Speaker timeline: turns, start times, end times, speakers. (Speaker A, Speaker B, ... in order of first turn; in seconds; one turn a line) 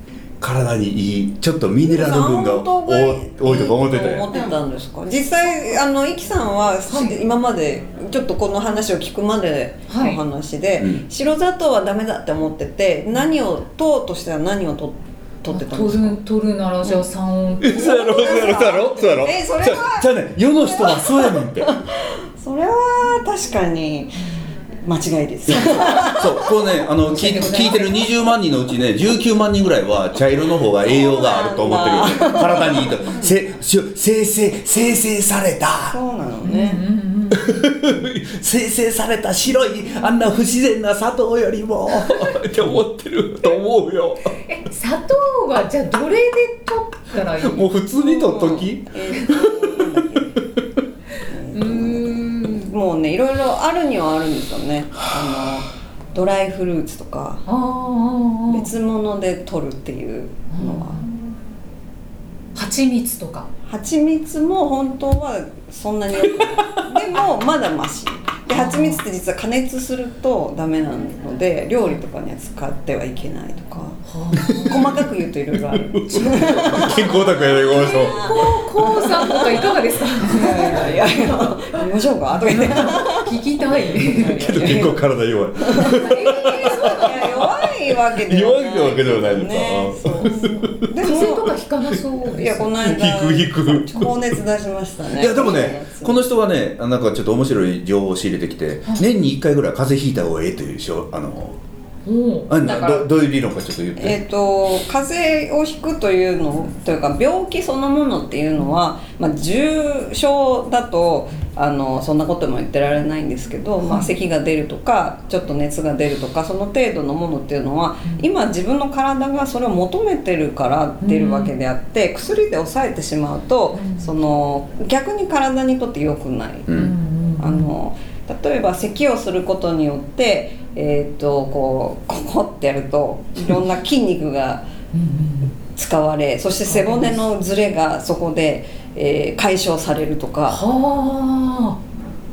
Speaker A: 0.4-4.3
Speaker B: 1.8-16.2
Speaker C: 6.9-7.2
Speaker C: 9.9-10.2
Speaker A: 10.8-11.0
Speaker C: 15.5-18.3
Speaker A: 17.6-21.8
Speaker B: 17.6-24.2
Speaker B: 24.8-26.3
Speaker A: 25.4-36.0
Speaker C: 27.1-28.1
Speaker B: 30.8-33.1
Speaker B: 35.9-36.8
Speaker C: 36.4-37.6
Speaker A: 37.3-44.3
Speaker C: 44.5-47.7
Speaker A: 47.4-50.6
Speaker B: 48.0-50.4
Speaker B: 51.2-57.4
Speaker C: 51.5-52.7
Speaker A: 55.1-55.5
Speaker C: 57.5-58.7
Speaker B: 58.5-61.0
Speaker C: 60.5-61.1
Speaker C: 62.5-63.5
Speaker B: 63.7-74.0
Speaker C: 68.5-69.0
Speaker C: 74.0-75.0
Speaker A: 74.5-75.0
Speaker B: 74.5-83.3
Speaker A: 75.7-78.3
Speaker C: 76.1-84.9
Speaker B: 83.9-85.0
Speaker A: 84.2-87.5
Speaker B: 85.6-91.5
Speaker C: 85.8-87.4
Speaker A: 88.2-90.8
Speaker C: 91.0-92.8
Speaker B: 92.2-96.2
Speaker A: 92.8-94.4
Speaker A: 95.1-101.6
Speaker C: 102.0-103.0
Speaker A: 102.5-104.2
Speaker B: 102.8-103.0
Speaker B: 104.0-126.8
Speaker C: 113.8-114.1
Speaker C: 121.0-121.5
Speaker C: 123.7-124.1
Speaker A: 126.7-126.9
Speaker C: 126.7-127.7
Speaker B: 127.4-134.7
Speaker C: 134.9-135.5
Speaker B: 135.7-140.6
Speaker C: 136.6-137.2
Speaker C: 140.5-141.8